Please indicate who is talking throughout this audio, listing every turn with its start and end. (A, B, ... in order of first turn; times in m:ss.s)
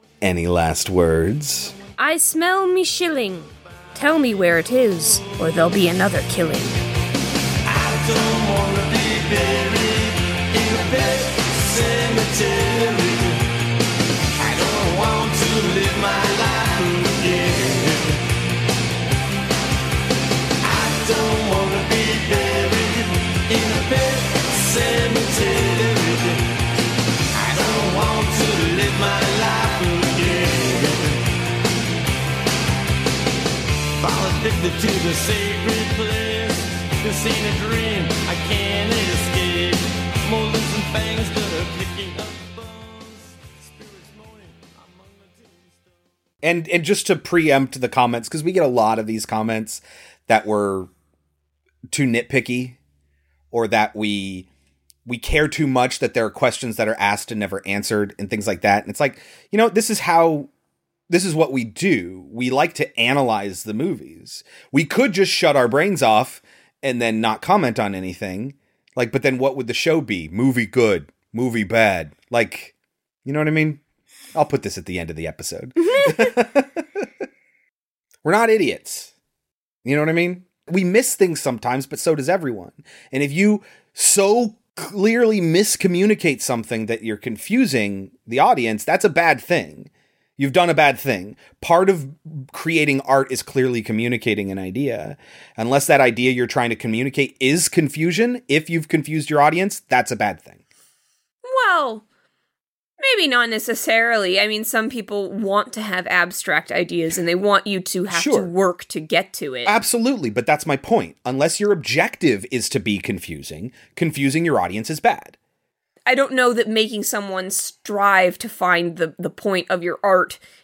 0:00.2-0:01.7 A
0:02.0-0:06.8 B
0:07.6-0:13.4 C
0:14.4-0:18.2 C
0:20.6-0:26.4 C
0:27.4-0:31.2 C
0:34.0-0:45.4 C
0:46.4-0:50.9 A
0:51.9-0:52.8 A
0:53.5-0:54.5 A
0:55.0-1:00.5 A
1:01.1-1:12.7 A
1:13.2-1:13.8 A
1:14.3-1:16.8 A
1:15.8-1:16.3 B
1:18.2-1:19.1 A
1:19.8-1:40.6 A
1:41.4-1:42.0 B
1:43.0-1:49.8 B
1:48.1-1:48.5 A
1:49.6-1:55.4 A
1:56.0-2:00.4 B